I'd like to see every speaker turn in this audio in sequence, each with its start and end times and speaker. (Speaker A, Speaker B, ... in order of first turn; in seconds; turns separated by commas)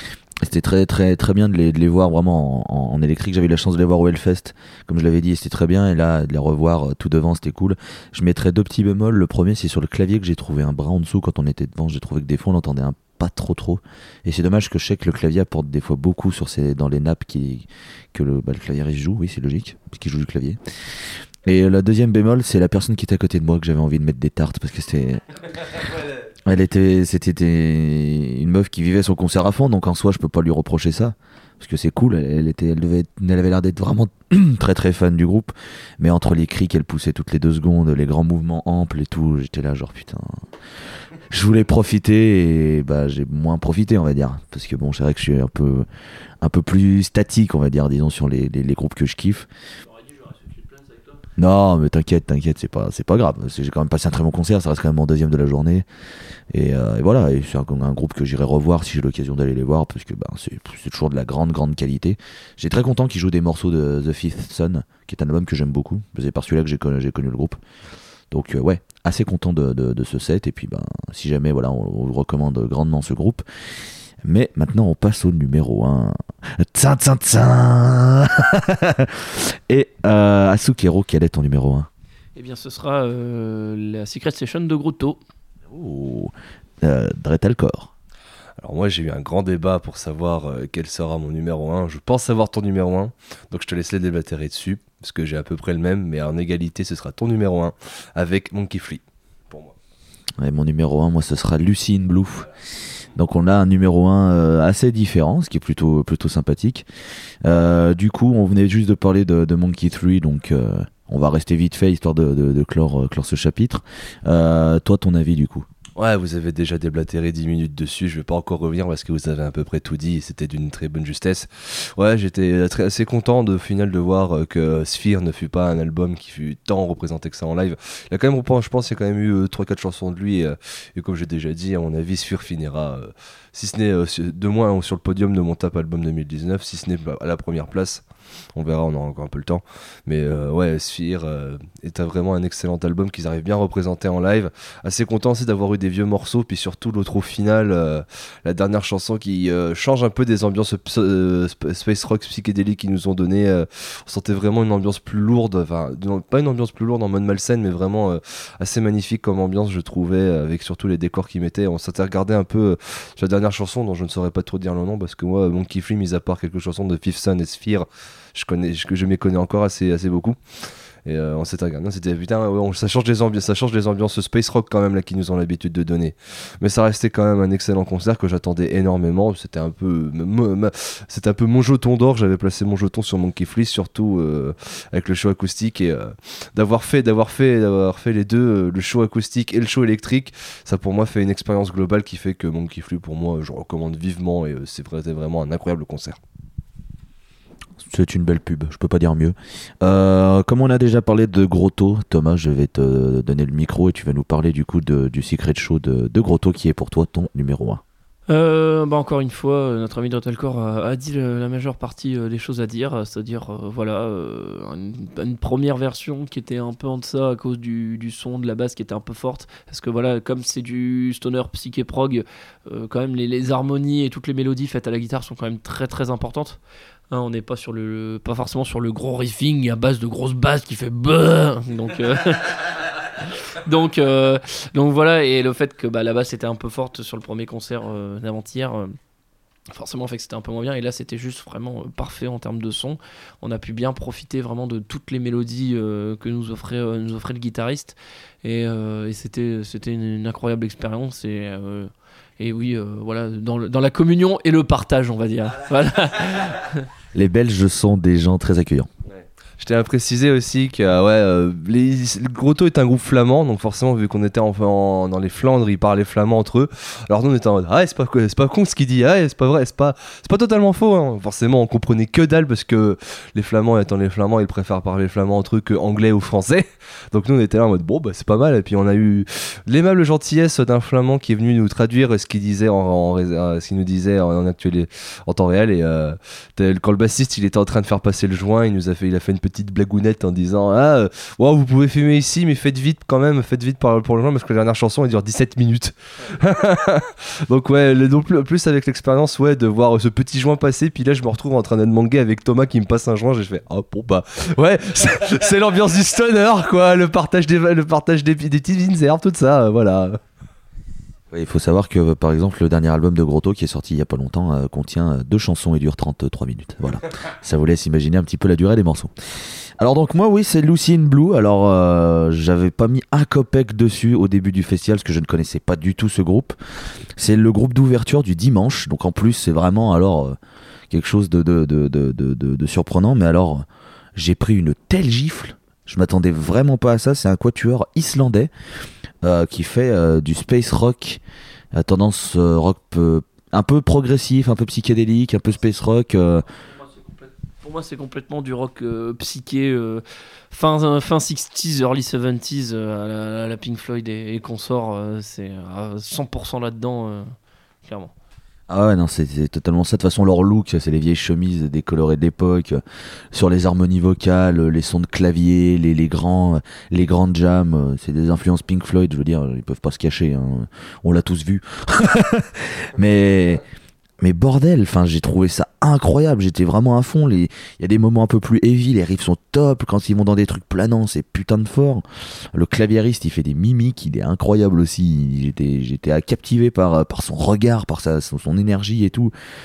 Speaker A: 0.4-20.6, Speaker A: 21.4-25.9, Speaker A: 26.4-40.4, Speaker A: 41.3-45.9, Speaker A: 46.4-49.5, Speaker B: 49.9-51.2, Speaker A: 51.4-55.9, Speaker A: 56.5-67.6, Speaker A: 68.3-73.4, Speaker A: 74.2-81.9, Speaker B: 82.3-85.2, Speaker A: 85.7-87.9, Speaker C: 88.6-99.7, Speaker A: 100.4-102.5, Speaker A: 103.1-106.8, Speaker A: 107.4-115.7, Speaker C: 116.0-170.4, Speaker C: 171.0-196.2, Speaker A: 197.8-207.8, Speaker B: 208.3-226.6, Speaker B: 227.1-239.0, Speaker B: 239.7-256.9, Speaker A: 257.1-258.9, Speaker C: 259.1-310.2, Speaker A: 311.3-319.1, Speaker A: 319.8-326.6, Speaker A: 327.1-330.4, Speaker A: 330.9-338.5, Speaker A: 339.2-341.2, Speaker A: 341.7-346.4, Speaker B: 346.7-358.1, Speaker A: 358.7-373.6, Speaker A: 374.2-389.3